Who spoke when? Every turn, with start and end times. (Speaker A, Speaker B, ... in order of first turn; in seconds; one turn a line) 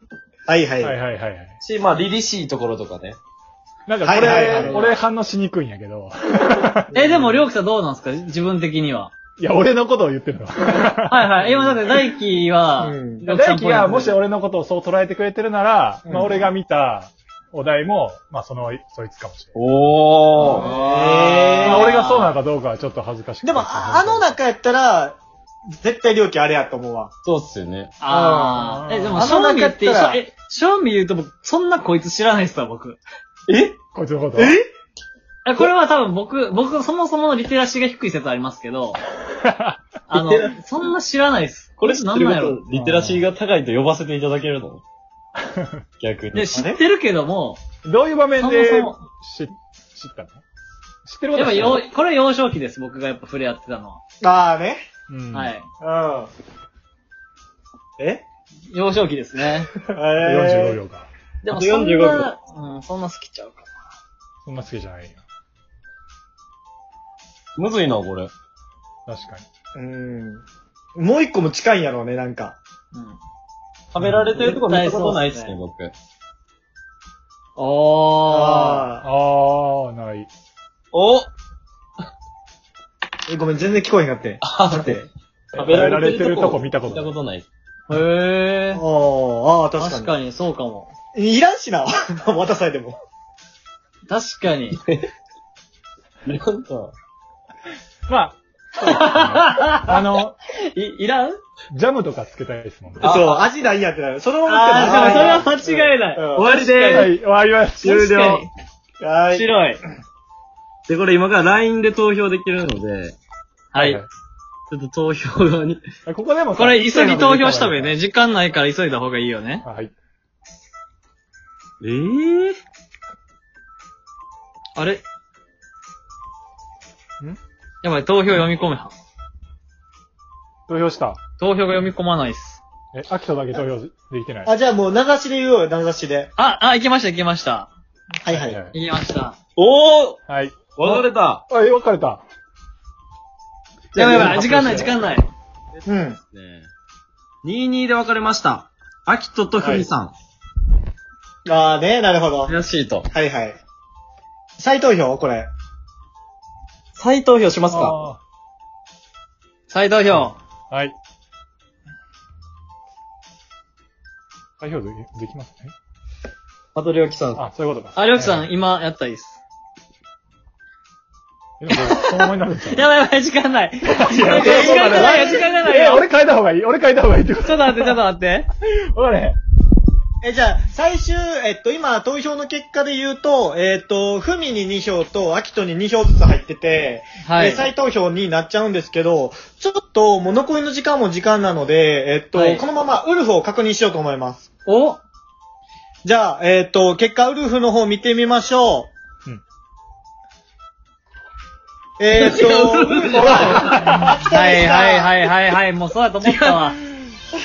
Speaker A: 0.5-0.9
Speaker B: 0.8-1.6
Speaker C: 1.6-3.2
Speaker B: 3.9-6.9
Speaker A: 4.0-4.9
Speaker D: 4.3-4.8
Speaker A: 6.9-7.5
Speaker D: 6.9-9.1
Speaker B: 9.4-11.3
Speaker D: 11.1-14.2
Speaker A: 12.8-13.3
Speaker B: 13.3-19.5
Speaker A: 16.0-16.5
Speaker C: 19.5-20.8
Speaker D: 20.4-22.4
Speaker A: 20.4-22.0
Speaker B: 21.6-24.3
Speaker A: 23.4-25.2
Speaker A: 25.7-27.1
Speaker C: 27.2-27.9
Speaker D: 28.0-33.0
Speaker A: 28.1-30.2
Speaker B: 28.6-29.2
Speaker C: 33.5-33.8
Speaker B: 33.9-34.5
Speaker A: 34.4-34.7
Speaker D: 35.4-39.0
Speaker B: 39.4-39.8
Speaker D: 40.1-42.6
Speaker C: 40.1-40.6
Speaker C: 41.8-44.8
Speaker B: 42.7-43.2
Speaker B: 45.5-45.8
Speaker C: 46.0-46.5
Speaker D: 46.3-47.6
Speaker A: 46.5-46.8
Speaker B: 47.8-50.4
Speaker D: 48.4-49.0
Speaker B: 51.0-51.8
Speaker D: 51.3-54.0
Speaker A: 54.2-54.8
Speaker B: 55.1-55.5
Speaker D: 55.3-55.7
Speaker A: 55.8-56.3
Speaker A: 58.0-58.2
Speaker D: 58.7-59.7
Speaker A: 59.8-60.8
Speaker B: 60.2-61.1
Speaker C: 61.4-62.3
Speaker D: 61.5-63.7
Speaker B: 64.5-65.2
Speaker C: 67.6-68.3
Speaker B: 69.1-69.4
Speaker A: 69.8-70.4
Speaker A: 71.0-72.6
Speaker D: 72.9-73.2
Speaker C: 73.9-75.9
Speaker B: 74.0-74.3
Speaker D: 74.4-75.6
Speaker D: 77.6-78.9
Speaker A: 78.3-79.0
Speaker B: 79.0-80.3
Speaker C: 80.9-81.3
Speaker A: 83.3-85.0
Speaker C: 84.4-87.5
Speaker B: 85.6-87.1
Speaker D: 87.9-88.8
Speaker A: 88.7-90.1
Speaker D: 89.8-90.9
Speaker A: 91.1-93.0
Speaker D: 94.1-94.8
Speaker C: 96.2-96.9
Speaker B: 98.1-100.3
Speaker D: 98.8-101.4
Speaker B: 101.7-103.2
Speaker C: 103.0-103.4
Speaker A: 103.0-106.6
Speaker D: 104.5-107.1
Speaker C: 104.8-105.4
Speaker C: 106.3-107.1
Speaker B: 106.9-108.0
Speaker D: 107.8-108.5
Speaker C: 107.8-108.5
Speaker A: 109.0-109.5
Speaker D: 109.3-109.8
Speaker C: 110.9-113.2
Speaker D: 113.7-114.0
Speaker B: 113.8-114.1
Speaker C: 114.7-115.8
Speaker B: 116.0-118.0
Speaker D: 116.5-119.6
Speaker B: 119.6-119.9
Speaker C: 121.9-122.5
Speaker D: 124.8-125.0
Speaker D: 127.8-128.9
Speaker B: 130.7-131.2
Speaker D: 131.4-132.6
Speaker B: 132.9-134.5
Speaker A: 134.4-136.3
Speaker D: 136.4-137.7
Speaker A: 138.2-138.6
Speaker B: 138.3-138.7
Speaker D: 138.7-139.4
Speaker C: 139.6-140.2
Speaker B: 140.3-140.7
Speaker C: 140.7-141.4
Speaker B: 141.5-142.2
Speaker D: 143.9-145.2
Speaker A: 144.0-144.9
Speaker B: 144.4-144.9
Speaker C: 145.8-146.7
Speaker A: 145.8-146.2
Speaker C: 147.4-150.1
Speaker B: 149.6-149.9
Speaker A: 151.4-152.5
Speaker C: 152.4-153.1
Speaker A: 153.1-153.6
Speaker A: 154.6-155.5
Speaker C: 156.9-158.0
Speaker B: 157.7-158.2
Speaker D: 159.7-160.4
Speaker B: 160.7-160.9
Speaker B: 164.6-165.7
Speaker C: 166.7-167.4
Speaker B: 167.3-168.5
Speaker D: 167.9-169.4
Speaker B: 171.6-172.9
Speaker D: 171.7-176.1
Speaker B: 173.9-177.9
Speaker A: 174.2-175.4
Speaker D: 177.4-178.5
Speaker B: 178.6-179.4
Speaker A: 180.2-194.4
Speaker D: 187.2-187.7
Speaker D: 192.3-192.6
Speaker D: 194.7-195.0
Speaker A: 196.0-198.9
Speaker A: 202.0-205.1
Speaker C: 202.1-204.0
Speaker B: 203.7-204.2
Speaker D: 204.2-206.8
Speaker C: 206.2-206.6